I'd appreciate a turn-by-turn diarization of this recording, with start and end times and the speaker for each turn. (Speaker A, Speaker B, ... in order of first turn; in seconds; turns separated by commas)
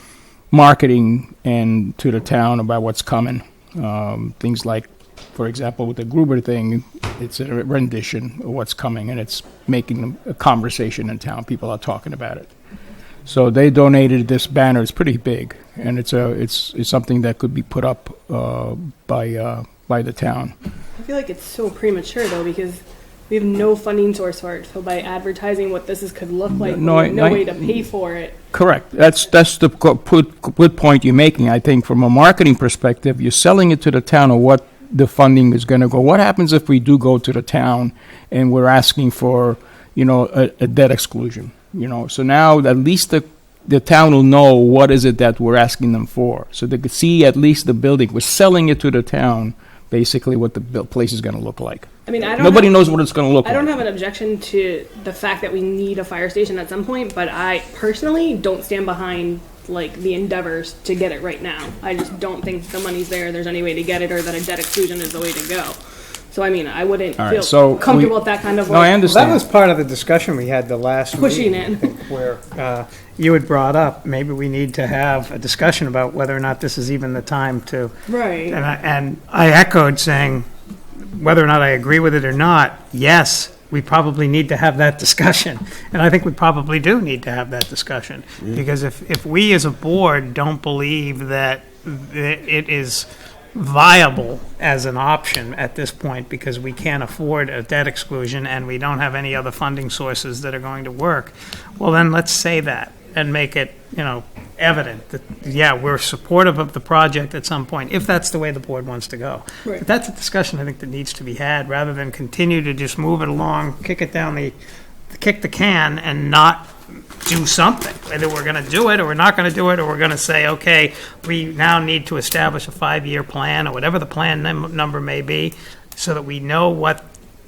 Speaker A: 0.5-12.5, Speaker A: 13.3-20.5, Speaker B: 21.0-28.4, Speaker A: 26.6-27.8, Speaker A: 28.5-53.7, Speaker B: 52.1-65.8, Speaker B: 66.3-69.2, Speaker A: 67.2-69.4, Speaker C: 69.0-77.9, Speaker B: 71.1-71.8, Speaker B: 78.1-78.6, Speaker C: 78.5-80.5, Speaker C: 81.1-114.5, Speaker C: 115.1-127.1